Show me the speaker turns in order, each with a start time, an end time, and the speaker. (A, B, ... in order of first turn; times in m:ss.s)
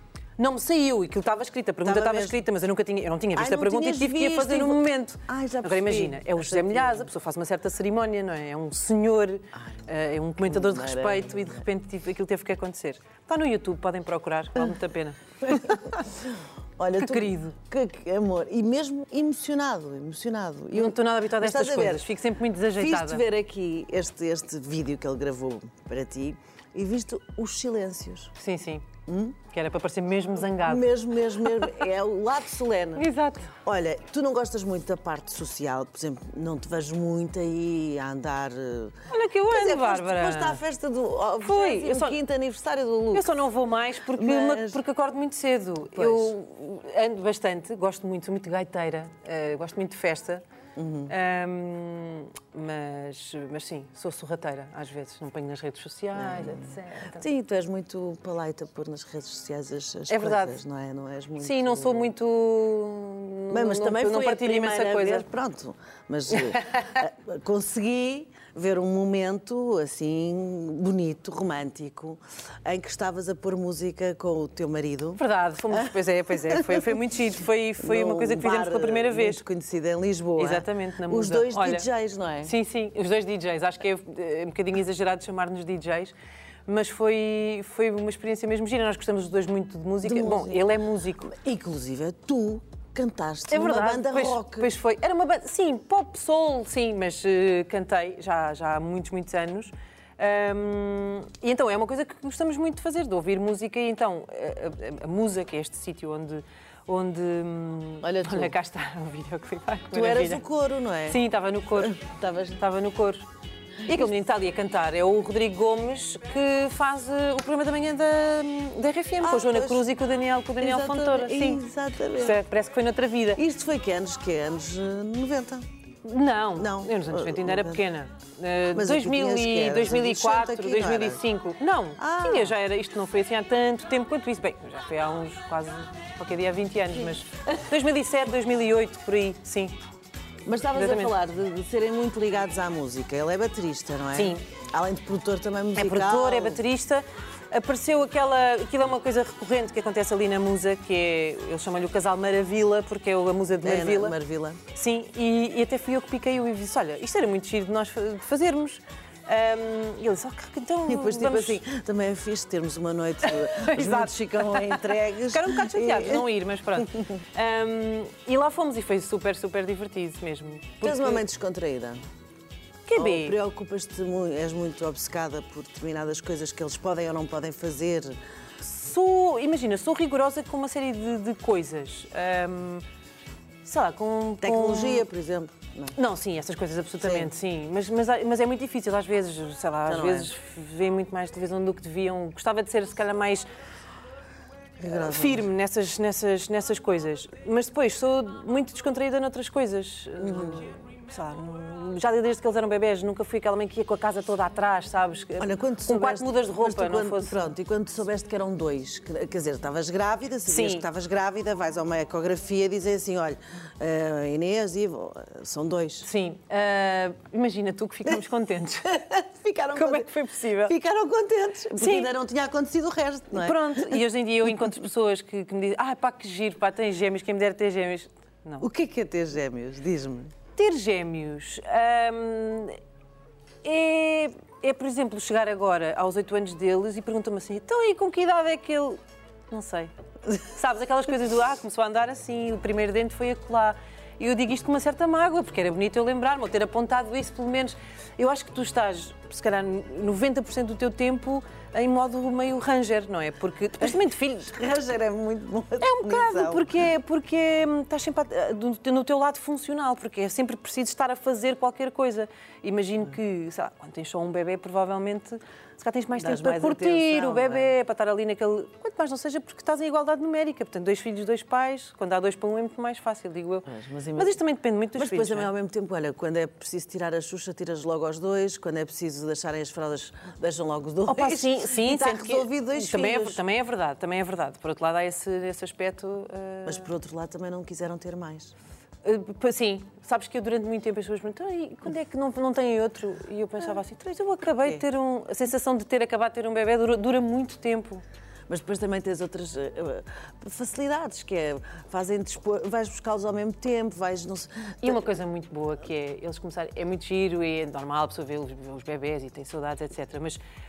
0:00.4-0:15.8 A
0:01.8-0:02.4 B
0:03.3-0:07.1 B
0:09.5-0:09.8 B
0:10.4-0:11.6 B
0:15.4-0:22.1 B
0:17.0-0:17.5 A
0:20.7-0:23.2 A
0:22.8-0:28.3 B
0:28.4-0:28.9 A
0:29.1-0:29.4 B
0:29.4-0:30.9 A
0:30.6-0:33.1 B
0:33.0-0:33.5 A
0:33.6-0:43.3 B
0:39.1-0:40.6 A
0:41.4-0:42.2 A
0:43.1-0:50.4 A
0:44.1-0:44.8 B
0:46.0-0:46.3 B
0:50.8-0:51.1 B
0:51.1-0:57.3 A
0:56.2-1:02.1 B
1:00.1-1:00.6 A
1:01.4-1:05.2 A
1:03.5-1:17.0 B
1:06.6-1:06.9 A
1:15.2-1:19.4 A
1:17.8-1:22.5 B
1:20.4-1:21.9 A
1:22.4-1:26.1 A
1:26.7-1:31.3 A
1:30.0-1:30.6 B
1:31.2-1:34.7 B
1:33.5-1:50.4 A
1:48.0-1:48.5 B
1:49.9-1:51.2 B
1:51.1-1:53.3 A
1:51.8-1:52.6 B
1:53.8-2:01.6 A
1:59.2-1:59.9 B
2:00.6-2:02.4 B
2:02.1-2:03.4 A
2:03.4-2:05.7 B
2:06.0-2:19.8 A
2:06.6-2:07.8 B
2:08.7-2:11.2 B
2:12.0-2:12.6 B
2:20.4-2:26.6 B
2:20.7-2:21.1 A
2:24.1-2:24.4 A
2:25.7-2:34.2 A
2:33.6-2:34.6 B
2:34.7-2:41.6 A
2:40.9-2:46.8 B
2:43.2-2:51.2 A
2:50.8-2:52.0 B
2:52.8-2:53.4 A
2:52.9-2:58.2 B
2:58.6-3:02.8 A
3:03.6-3:05.1 A
3:04.4-3:06.0 B
3:06.0-3:13.5 A
3:07.0-3:07.3 B
3:09.9-3:10.3 B
3:14.8-3:15.4 B
3:14.9-3:27.5 A
3:20.2-3:20.6 B
3:25.4-3:36.0 B
3:30.4-3:30.9 A
3:36.0-3:39.0 A
3:38.9-3:40.1 B
3:39.7-3:40.8 A
3:40.6-3:44.0 B
3:41.8-3:42.1 A
3:43.3-3:48.7 A
3:48.6-3:50.3 B
3:50.5-3:52.8 A
3:53.6-4:14.5 A
4:13.8-4:16.7 B
4:15.8-4:35.5 A
4:26.2-4:27.7 B
4:33.6-4:34.4 B
4:35.0-4:43.4 B
4:41.1-4:46.9 A
4:46.6-4:48.5 B
4:49.0-4:58.0 A
4:58.5-5:05.0 B
5:04.8-5:10.4 A